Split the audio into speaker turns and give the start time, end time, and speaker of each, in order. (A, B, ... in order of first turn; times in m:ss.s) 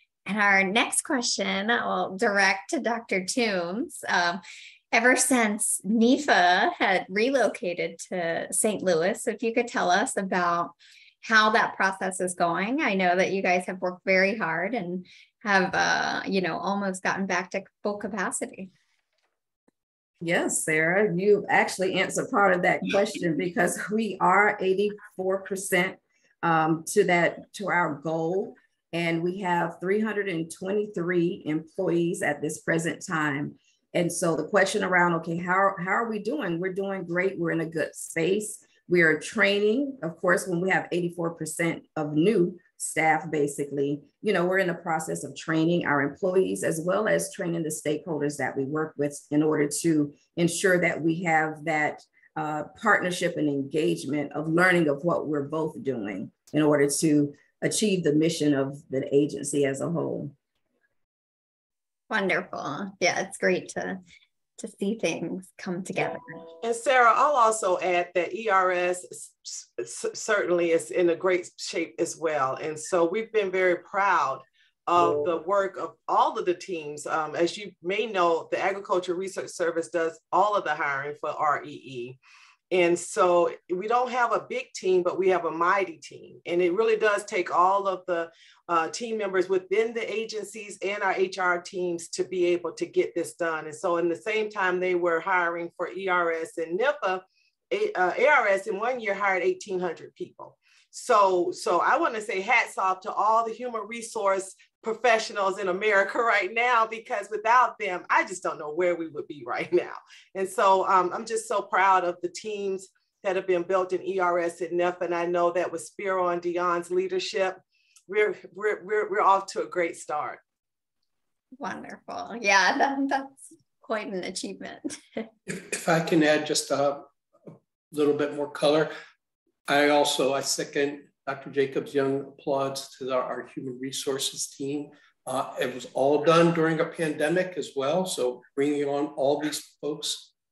0:00.2-0:18.7 A
0:20.2-1:00.3 B
1:02.1-1:04.0 A
1:04.6-1:06.4 A
1:06.6-1:22.2 C
1:22.7-2:00.4 C
2:01.6-2:05.2 A
2:05.5-2:08.9 D
2:09.7-2:20.3 D